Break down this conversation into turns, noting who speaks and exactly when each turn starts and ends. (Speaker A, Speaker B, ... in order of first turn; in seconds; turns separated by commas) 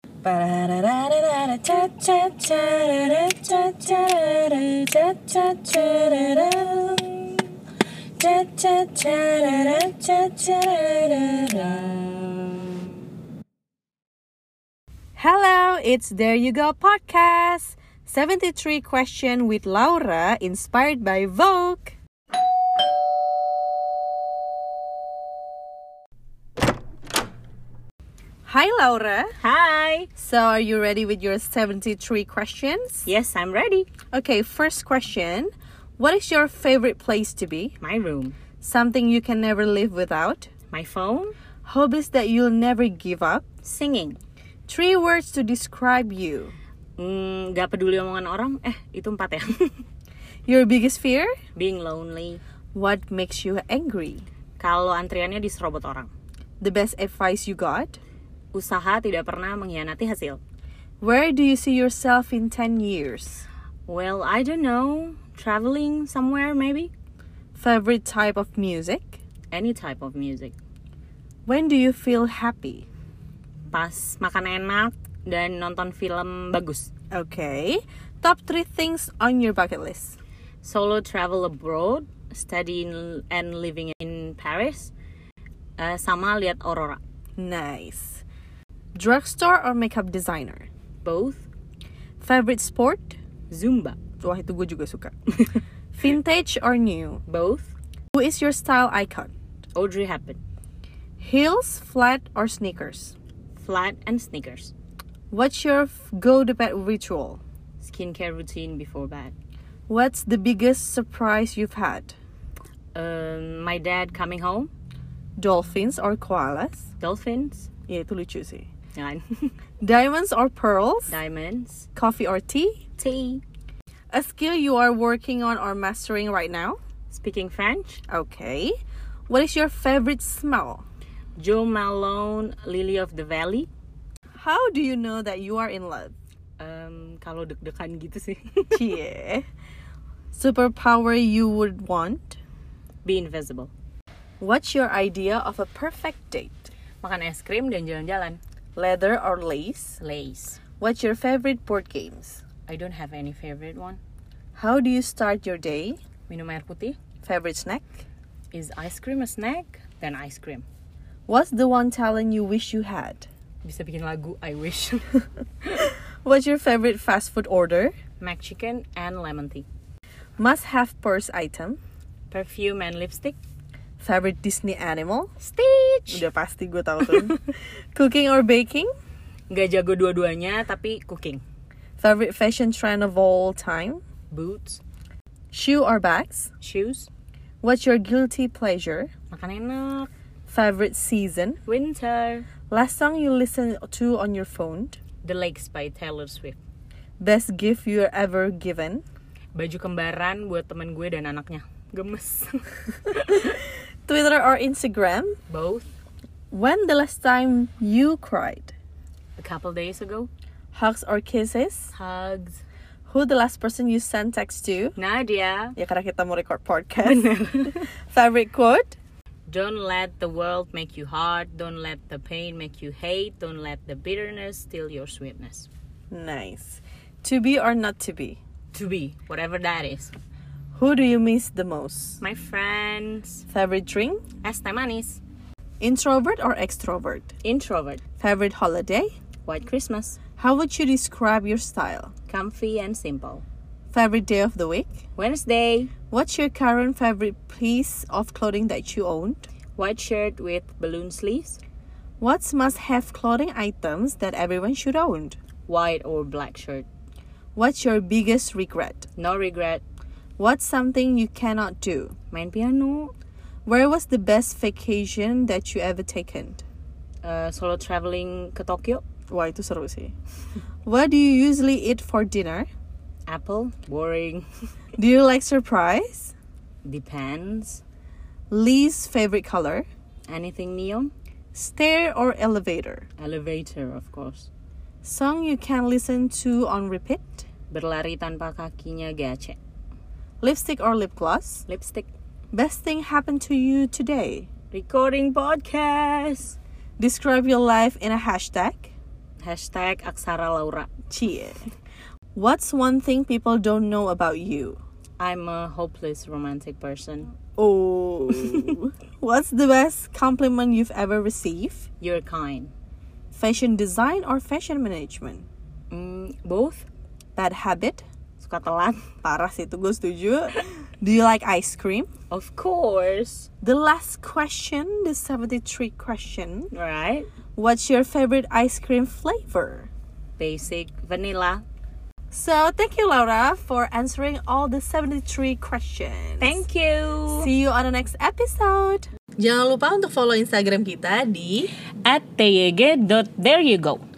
Speaker A: 0.2-7.0, Speaker B: 5.9-7.4, Speaker A: 8.2-9.2, Speaker B: 8.4-12.8, Speaker A: 15.2-21.9, Speaker A: 28.4-29.3, Speaker B: 29.4-30.1, Speaker A: 30.2-33.1, Speaker B: 33.0-33.9, Speaker A: 34.1-37.8, Speaker B: 37.8-38.4, Speaker A: 38.6-40.5, Speaker B: 40.7-41.3, Speaker A: 41.6-43.4, Speaker B: 43.6-44.2, Speaker A: 44.7-46.5, Speaker B: 47.0-49.7, Speaker A: 50.5-51.3, Speaker B: 51.5-52.4, Speaker A: 52.7-54.2, Speaker B: 54.6-56.1, Speaker A: 56.6-58.0, Speaker B: 58.5-60.4, Speaker A: 61.0-63.5, Speaker B: 63.9-66.9, Speaker A: 67.5-69.2, Speaker B: 69.5-70.5, Speaker A: 71.5-72.8, Speaker B: 73.7-76.9, Speaker A: 77.1-80.2, Speaker B: 80.6-84.9, Speaker B: 85.8-87.0, Speaker A: 87.4-88.2, Speaker A: 88.9-90.7, Speaker B: 91.0-91.5, Speaker A: 92.2-93.2, Speaker B: 93.5-94.0, Speaker A: 94.2-95.1, Speaker A: 95.9-97.2, Speaker B: 97.3-97.7, Speaker A: 98.1-99.3, Speaker B: 99.8-100.4, Speaker A: 101.2-103.1, Speaker B: 103.5-104.7, Speaker A: 105.3-107.4, Speaker B: 107.8-109.3, Speaker A: 109.9-112.1, Speaker B: 112.9-114.7, Speaker A: 115.4-116.9, Speaker B: 117.0-117.7, Speaker A: 117.9-118.7, Speaker B: 118.9-119.5, Speaker A: 119.8-121.2, Speaker B: 121.1-121.9, Speaker A: 122.0-122.8, Speaker B: 123.0-123.4, Speaker A: 124.1-126.8, Speaker B: 127.1-128.0, Speaker A: 128.1-128.8, Speaker A: 129.3-130.8, Speaker B: 131.4-133.7, Speaker A: 134.4-136.1, Speaker B: 136.6-138.9, Speaker A: 138.7-139.4, Speaker A: 140.3-142.4, Speaker B: 143.0-143.7, Speaker A: 144.4-146.7, Speaker B: 147.0-148.4, Speaker A: 148.8-150.0, Speaker B: 150.0-150.6, Speaker A: 150.8-152.4, Speaker B: 152.7-154.0, Speaker A: 154.6-156.0, Speaker B: 156.3-157.0, Speaker A: 157.2-158.0, Speaker B: 158.5-160.6, Speaker A: 161.3-163.3, Speaker B: 163.6-165.2, Speaker A: 165.7-167.9, Speaker B: 168.2-169.7, Speaker A: 170.4-171.8, Speaker B: 172.3-173.4, Speaker A: 174.0-175.3, Speaker B: 175.4-176.2, Speaker A: 176.1-177.4, Speaker B: 177.0-177.4, Speaker A: 177.9-178.9, Speaker B: 179.5-181.4, Speaker A: 182.0-184.0, Speaker B: 184.3-184.8, Speaker A: 185.5-186.5, Speaker B: 186.6-187.1, Speaker A: 187.6-189.1, Speaker B: 189.3-190.1, Speaker A: 190.5-191.6, Speaker B: 191.7-192.5, Speaker A: 192.7-195.0, Speaker B: 195.2-196.6, Speaker A: 197.2-199.0, Speaker B: 199.5-203.6, Speaker A: 203.4-205.3, Speaker B: 205.5-205.9, Speaker A: 206.5-208.7, Speaker B: 209.4-210.3, Speaker A: 210.7-211.9, Speaker B: 211.9-212.6, Speaker A: 213.1-214.9, Speaker B: 214.9-215.8, Speaker A: 215.8-219.0, Speaker B: 217.0-217.8, Speaker B: 219.5-225.7, Speaker A: 226.1-228.4, Speaker B: 228.7-230.1, Speaker A: 230.7-232.2, Speaker B: 232.2-233.4, Speaker A: 233.5-234.2, Speaker B: 234.4-235.2, Speaker A: 235.8-237.3, Speaker B: 237.4-238.0, Speaker A: 238.2-239.1, Speaker B: 239.4-240.2, Speaker A: 240.4-242.1, Speaker B: 242.3-243.4, Speaker A: 243.9-244.9, Speaker B: 245.2-245.9, Speaker A: 246.1-249.4, Speaker B: 249.8-251.6, Speaker A: 252.2-255.3, Speaker B: 255.7-256.9, Speaker A: 257.6-259.1, Speaker B: 259.2-259.8, Speaker A: 260.4-262.1, Speaker B: 262.3-263.1, Speaker A: 263.6-266.6, Speaker B: 267.2-269.0, Speaker A: 269.3-270.1, Speaker A: 270.8-272.7, Speaker B: 273.3-274.5, Speaker A: 275.0-276.3, Speaker B: 276.8-277.8, Speaker A: 278.5-279.8, Speaker B: 280.3-281.1, Speaker A: 281.5-283.1, Speaker B: 283.2-284.5, Speaker A: 285.0-287.5, Speaker B: 287.7-289.6, Speaker A: 290.4-291.6, Speaker B: 291.7-292.1, Speaker A: 292.5-294.5, Speaker B: 294.7-296.6, Speaker A: 297.0-298.9, Speaker B: 299.4-300.9, Speaker A: 301.1-301.7, Speaker A: 302.3-304.8, Speaker B: 305.2-307.3, Speaker A: 307.6-311.9, Speaker B: 308.3-308.7, Speaker B: 312.0-312.7, Speaker A: 313.3-315.5, Speaker B: 315.9-316.9, Speaker A: 317.3-318.0, Speaker B: 318.4-319.1, Speaker A: 319.2-322.1, Speaker B: 322.3-323.5, Speaker A: 323.6-326.7, Speaker B: 326.7-327.3, Speaker A: 327.6-329.9, Speaker B: 330.4-331.6, Speaker A: 332.3-336.6, Speaker B: 336.4-337.5, Speaker A: 337.3-341.7, Speaker B: 342.0-344.0